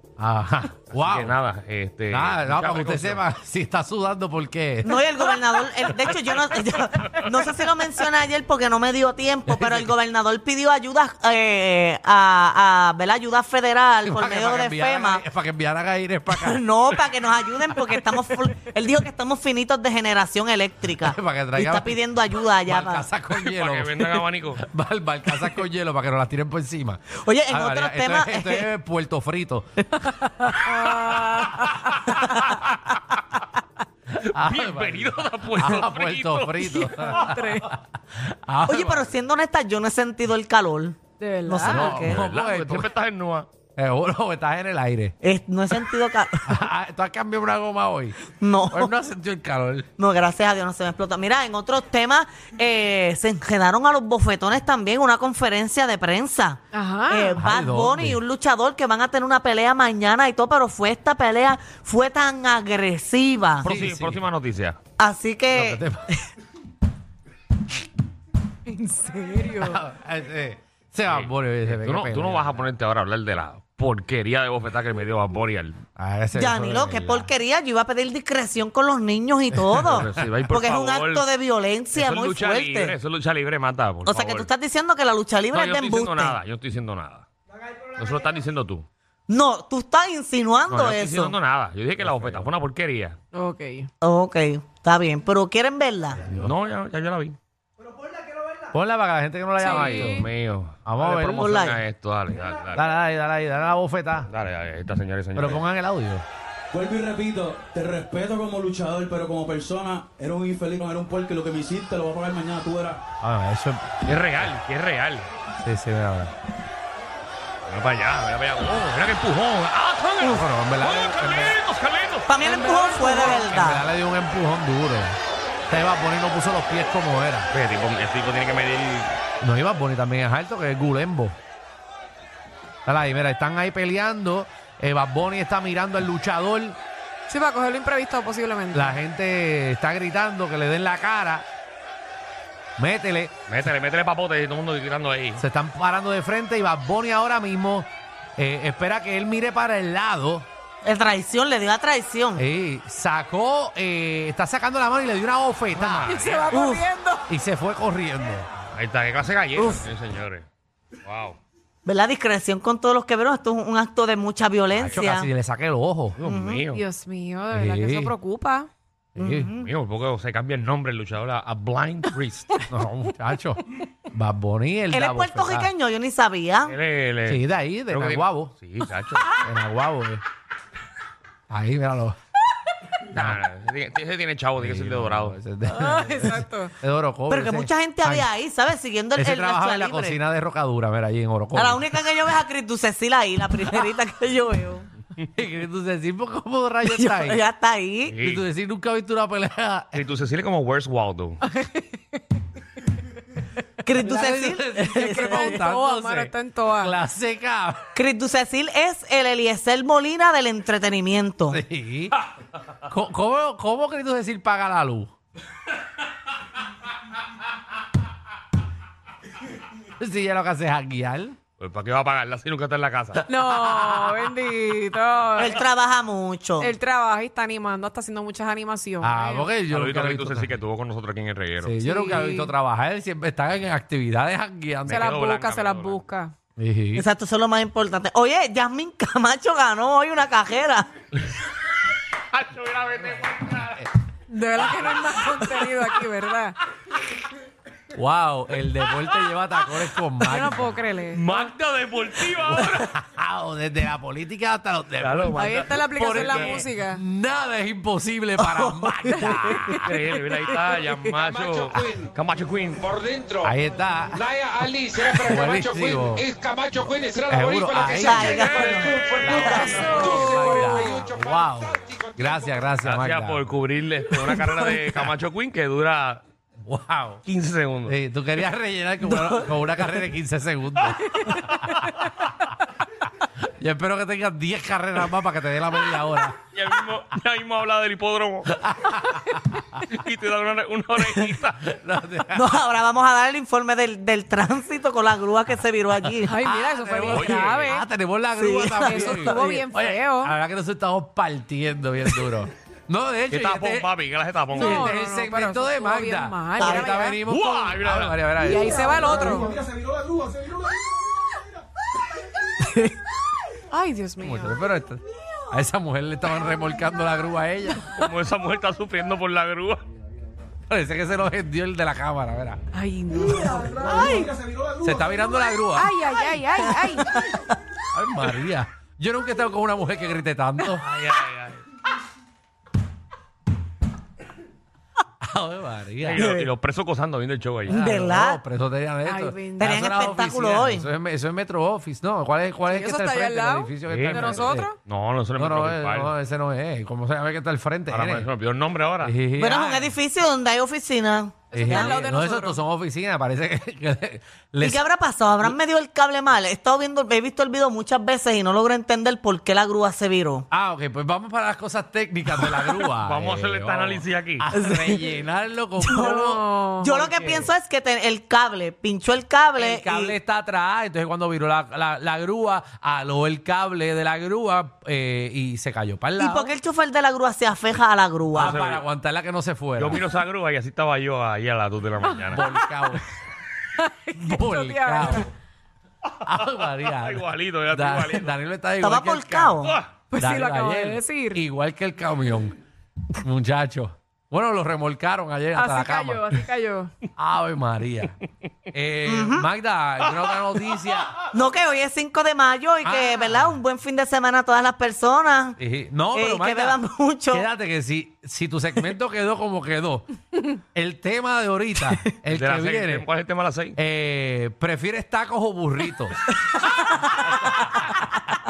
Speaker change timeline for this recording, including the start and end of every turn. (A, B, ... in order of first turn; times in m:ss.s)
0:00.2-0:01.4 A
0:00.9-0:03.2 B
0:02.1-0:05.2 A
0:04.8-0:15.2 C
0:09.5-0:09.9 A
0:14.0-0:16.6 A
0:16.3-0:23.1 C
0:21.0-0:29.7 A
0:23.4-0:24.6 B
0:27.2-0:28.7 C
0:30.0-0:31.0 C
0:30.5-0:31.8 D
0:32.1-0:32.8 B
0:32.2-0:32.5 C
0:34.2-0:37.2 B
0:34.3-0:39.1 A
0:36.7-0:37.7 D
0:38.6-0:42.2 C
0:41.2-0:42.0 D
0:41.6-0:42.9 A
0:42.0-0:43.5 B
0:43.8-0:45.2 A
0:45.2-0:46.6 C
0:46.4-0:48.2 A
0:48.4-0:48.9 C
0:48.7-0:49.9 A
0:50.0-1:03.6 C
0:56.7-0:57.4 D
0:57.4-0:58.2 A
1:03.6-1:04.2 A
1:03.6-1:04.8 B
1:05.0-1:06.1 C
1:05.5-1:06.1 A
1:08.7-1:09.8 D
1:09.6-1:12.6 A
1:11.1-1:15.8 B
1:16.0-1:17.3 A
1:16.3-1:23.0 C
1:19.5-1:20.2 A
1:19.9-1:21.3 B
1:21.9-1:24.5 B
1:24.0-1:26.4 C
1:25.5-1:27.3 B
1:27.9-1:28.8 B
1:29.3-1:31.4 C
1:30.7-1:33.2 B
1:32.0-1:32.5 A
1:33.3-1:33.9 D
1:34.0-1:36.2 C
1:36.3-1:37.4 B
1:38.7-1:40.2 A
1:39.6-1:40.3 D
1:39.6-1:42.9 B
1:40.8-1:41.6 A
1:41.2-1:41.8 C
1:42.7-1:44.3 A
1:44.3-1:45.6 B
1:45.3-1:46.2 A
1:46.7-1:53.0 E
1:53.2-1:54.0 A
1:54.0-1:55.3 B
1:55.6-1:56.3 A
1:57.6-2:02.3 B
2:00.2-2:01.6 A
2:02.2-2:03.8 C
2:02.8-2:05.2 A
2:05.7-2:07.5 A
2:07.5-2:09.2 B
2:09.4-2:11.4 A
2:12.8-2:16.8 A
2:17.3-2:19.0 D
2:18.7-2:21.4 A
2:22.8-2:23.4 A
2:23.5-2:25.4 B
2:25.4-2:30.5 A
2:30.8-2:32.4 C
2:32.4-2:36.2 A
2:35.7-2:36.6 B
2:36.0-2:37.2 D
2:36.5-2:36.9 C
2:37.3-2:38.5 A
2:38.7-2:40.4 B
2:39.6-2:39.9 C
2:41.0-2:41.4 B
2:41.8-2:45.3 C
2:44.7-2:45.1 B
2:44.9-2:46.2 A
2:46.2-2:46.8 B
2:46.2-2:46.7 C
2:46.7-2:48.7 D
2:47.5-2:48.1 A
2:49.1-2:49.5 A
2:49.2-2:49.7 C
2:49.6-2:52.6 B
2:52.7-2:55.7 A
2:54.9-2:56.8 C
2:56.6-2:59.4 B
2:57.2-2:58.5 A
2:59.4-3:00.2 A
3:01.5-3:02.2 A
3:03.1-3:05.4 B
3:03.1-3:03.4 A
3:04.6-3:08.3 A
3:05.7-3:06.7 D
3:07.3-3:10.2 C
3:09.1-3:11.8 A
3:11.5-3:14.9 C
3:15.4-3:17.4 A
3:16.8-3:18.1 C
3:18.1-3:18.4 B
3:18.2-3:20.0 A
3:19.9-3:21.4 B
3:21.4-3:22.2 D
3:23.9-3:25.6 C
3:23.9-3:27.9 A
3:25.0-3:26.9 D
3:27.9-3:31.6 C
3:31.5-3:32.1 A
3:32.9-3:35.1 A
3:40.0-3:41.4 A
3:41.6-3:43.2 B
3:43.2-3:45.6 D
3:43.5-3:44.2 A
3:45.4-3:46.7 C
3:46.6-3:49.5 D
3:49.0-3:50.5 A
3:49.7-3:51.8 B
3:51.6-3:55.1 A
3:51.8-3:52.5 D
3:54.9-3:56.0 B
3:54.9-3:56.4 D
3:56.6-3:57.0 A
3:57.0-4:00.9 C
4:02.3-4:03.9 B
4:04.3-4:06.6 D
4:04.6-4:05.6 B
4:07.9-4:10.8 A
4:10.2-4:11.5 D
4:11.1-4:12.9 B
4:12.5-4:20.0 A
4:15.0-4:16.6 B
4:15.4-4:17.0 D
4:18.4-4:19.8 C
4:19.8-4:23.4 B
4:20.4-4:20.9 D
4:21.4-4:21.8 F
4:23.4-4:24.4 A
4:24.4-4:27.9 F
4:25.0-4:25.4 B
4:25.1-4:26.3 A
4:27.3-4:28.4 A
4:27.7-4:30.0 C
4:27.8-4:30.1 B
4:28.5-4:29.4 F
4:29.2-4:33.5 A
4:29.3-4:31.0 D
4:30.2-4:31.2 F
4:32.8-4:36.2 B
4:36.6-4:37.2 A
4:37.2-4:38.0 B
4:37.9-4:41.8 A
4:39.0-4:39.4 C
4:40.9-4:42.1 B
4:43.4-4:46.4 A
4:46.4-4:48.7 B
4:48.6-4:49.8 A
4:49.9-4:51.7 B
4:51.6-4:52.4 A
4:52.3-4:56.4 C
4:56.2-4:57.9 D
4:56.4-5:03.9 A
4:57.1-4:57.6 B
4:58.4-4:59.4 C
4:58.8-5:00.4 D
5:03.3-5:04.9 B
5:04.5-5:07.2 D
5:04.6-5:08.9 A
5:06.6-5:06.9 C
5:07.3-5:08.5 B
5:08.4-5:09.8 D
5:13.7-5:14.6 D
5:14.2-5:18.0 A
5:17.9-5:19.8 B
5:20.7-5:22.6 A
5:22.7-5:24.5 D
5:24.8-5:25.9 A
5:25.8-5:27.1 D
5:26.9-5:27.4 C
5:27.9-5:30.9 A
5:30.8-5:31.6 B
5:35.2-5:36.3 A
5:36.0-5:37.8 B
5:36.2-5:36.5 C
5:37.7-5:44.7 A
5:37.7-5:38.4 C
5:39.0-5:39.9 D
5:39.6-5:40.9 C
5:42.7-5:44.8 D
5:43.9-5:46.1 B
5:45.4-5:48.3 A
5:47.9-5:49.1 B
5:49.0-5:49.9 A
5:49.4-5:52.0 C
5:51.5-5:52.6 D
5:51.5-5:54.8 A
5:54.6-6:00.4 C
6:00.5-6:06.4 A
6:03.0-6:04.4 B
6:04.6-6:05.0 C
6:05.8-6:10.2 C
6:06.0-6:07.2 D
6:07.1-6:07.5 A
6:09.6-6:16.5 A
6:16.2-6:18.6 C
6:18.3-6:18.8 B
6:18.3-6:20.0 A
6:19.8-6:22.4 B
6:22.2-6:23.0 A
6:23.8-6:25.3 D
6:24.2-6:25.3 A
6:26.2-6:29.6 A
6:26.4-6:28.4 B
6:28.8-6:29.8 C
6:29.6-6:29.9 B
6:30.1-6:31.4 D
6:30.2-6:32.6 A
6:33.1-6:36.3 A
6:35.5-6:36.9 D
6:37.2-6:38.2 A
6:38.7-6:41.2 A
6:39.0-6:39.5 C
6:41.3-6:45.6 C
6:42.8-6:43.6 A
6:45.6-6:46.8 A
6:46.1-6:47.5 C
6:47.3-6:53.1 A
6:52.3-6:53.8 B
6:53.8-6:56.2 A
6:57.2-6:57.6 A